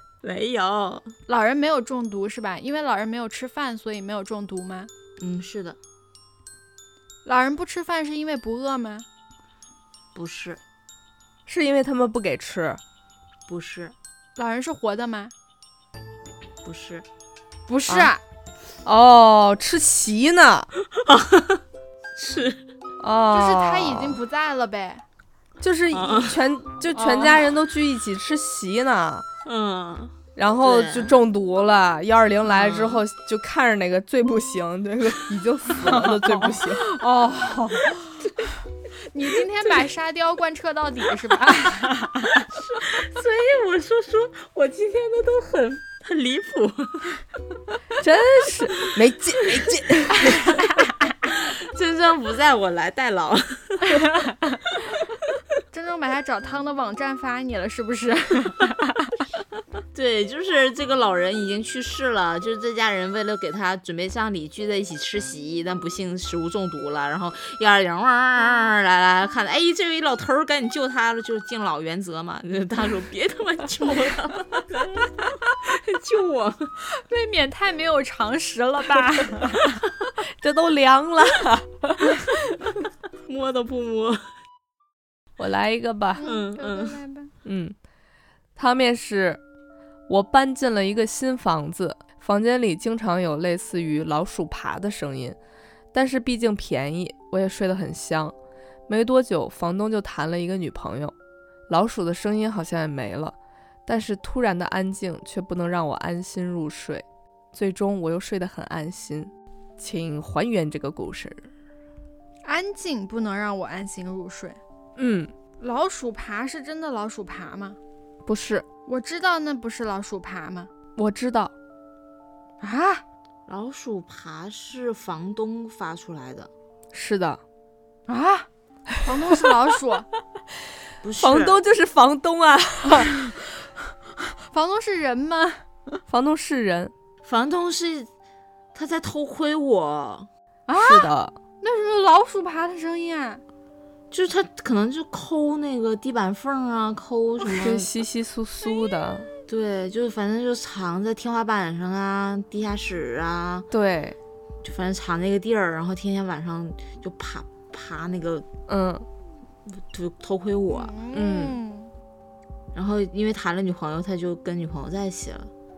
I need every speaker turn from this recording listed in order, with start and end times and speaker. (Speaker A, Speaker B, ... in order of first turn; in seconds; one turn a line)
Speaker A: 0.2-1.1
Speaker B: 1.3-4.9
Speaker A: 5.2-5.8
Speaker B: 7.2-9.1
Speaker A: 10.1-10.6
Speaker C: 11.5-12.8
Speaker A: 13.5-13.9
Speaker B: 14.4-15.3
Speaker A: 16.6-17.1
Speaker B: 17.7-18.2
Speaker C: 18.9-20.7
Speaker A: 20.9-21.6
Speaker A: 22.2-22.6
Speaker C: 23.0-24.2
Speaker B: 23.3-25.0
Speaker C: 25.6-29.3
Speaker A: 25.9-26.4
Speaker B: 26.9-27.4
Speaker A: 29.4-31.2
Speaker C: 30.4-36.9
Speaker A: 32.5-33.0
Speaker B: 35.8-38.2
Speaker B: 39.1-42.5
Speaker A: 42.5-47.2
Speaker C: 48.0-50.6
Speaker B: 50.3-50.6
Speaker A: 51.2-54.1
Speaker B: 55.7-59.1
Speaker A: 59.9-76.7
Speaker B: 76.9-79.8
Speaker C: 80.4-82.2
Speaker A: 83.3-84.3
Speaker C: 85.4-86.3
Speaker B: 86.2-87.3
Speaker A: 86.2-87.0
Speaker C: 87.5-87.7
Speaker C: 88.5-89.4
Speaker C: 90.1-95.4
Speaker C: 95.9-98.3
Speaker C: 98.9-101.1
Speaker C: 101.7-111.5
Speaker B: 112.4-114.6
Speaker C: 115.0-115.3
Speaker B: 115.6-117.8
Speaker C: 118.3-118.7
Speaker B: 118.9-120.7
Speaker C: 121.0-121.5
Speaker B: 122.6-123.0
Speaker A: 123.5-126.5
Speaker C: 126.9-127.4
Speaker B: 128.1-128.5
Speaker B: 129.0-130.1
Speaker A: 131.0-131.6
Speaker C: 131.2-133.1
Speaker B: 134.2-135.6
Speaker C: 136.1-136.9
Speaker A: 137.2-138.1
Speaker A: 138.7-140.3
Speaker B: 140.7-141.1
Speaker C: 140.8-141.4
Speaker B: 141.6-143.4
Speaker A: 144.1-147.9
Speaker C: 147.6-149.3
Speaker A: 149.5-153.7
Speaker C: 153.7-154.2
Speaker A: 154.6-158.4
Speaker C: 158.7-159.1
Speaker A: 159.7-160.9
Speaker B: 160.7-161.9
Speaker C: 161.1-161.6
Speaker A: 162.7-165.5